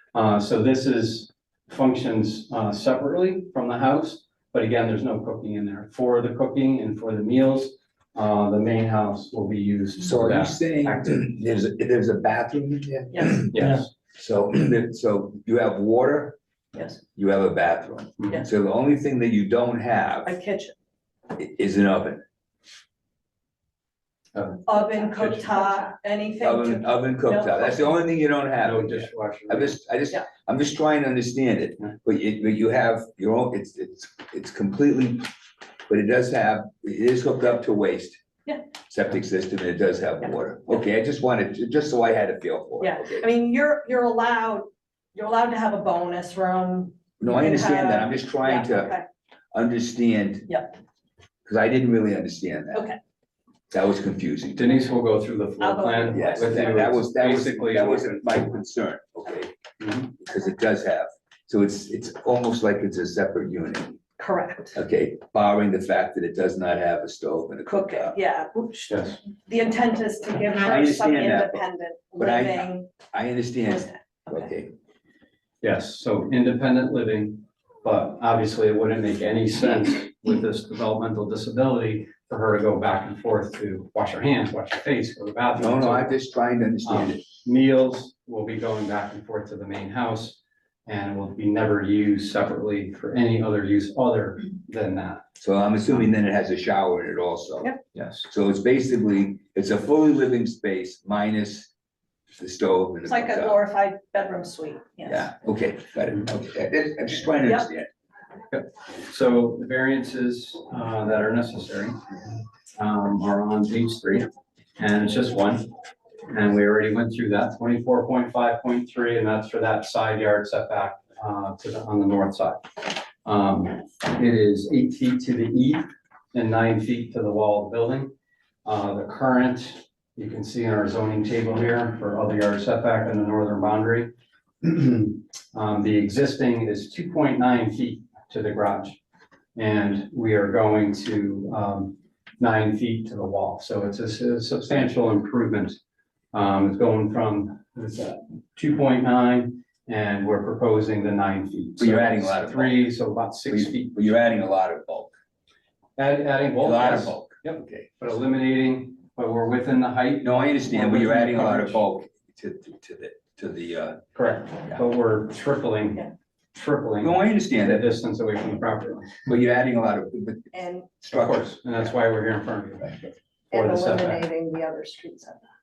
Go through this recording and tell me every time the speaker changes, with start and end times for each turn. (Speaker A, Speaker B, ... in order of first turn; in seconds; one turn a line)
Speaker A: 0.1-11.4
Speaker B: 10.0-16.4
Speaker C: 13.1-13.4
Speaker A: 13.5-13.9
Speaker B: 17.1-20.4
Speaker C: 20.2-20.7
Speaker B: 21.4-22.2
Speaker A: 24.4-25.8
Speaker C: 24.7-27.9
Speaker B: 26.4-35.3
Speaker A: 28.6-29.8
Speaker B: 35.9-38.2
Speaker B: 38.9-43.3
Speaker C: 42.8-49.1
Speaker B: 47.2-48.9
Speaker B: 49.5-50.6
Speaker B: 51.5-52.9
Speaker B: 53.7-54.7
Speaker A: 54.5-58.4
Speaker C: 55.6-56.9
Speaker B: 56.1-59.5
Speaker A: 59.8-60.1
Speaker B: 60.2-64.0
Speaker C: 64.2-64.8
Speaker B: 64.8-68.2
Speaker C: 67.7-72.9
Speaker A: 68.9-69.2
Speaker B: 70.6-71.6
Speaker B: 72.2-74.7
Speaker C: 73.7-74.5
Speaker A: 75.6-86.2
Speaker B: 85.6-87.2
Speaker A: 86.8-95.2
Speaker B: 95.4-101.7
Speaker A: 98.0-98.2
Speaker B: 102.4-103.6
Speaker C: 103.0-105.3
Speaker B: 105.0-107.9
Speaker A: 108.5-112.1
Speaker A: 112.8-115.7
Speaker A: 116.3-128.1
Speaker A: 128.7-134.1
Speaker A: 134.6-139.0
Speaker A: 139.6-145.8
Speaker A: 146.3-153.9
Speaker B: 151.8-152.9
Speaker B: 153.5-155.1
Speaker A: 156.0-161.8
Speaker B: 156.6-157.9
Speaker B: 160.2-164.0
Speaker A: 164.2-169.2
Speaker B: 167.0-167.9
Speaker B: 169.3-171.9
Speaker C: 170.5-170.9
Speaker A: 171.1-174.2
Speaker C: 173.5-175.5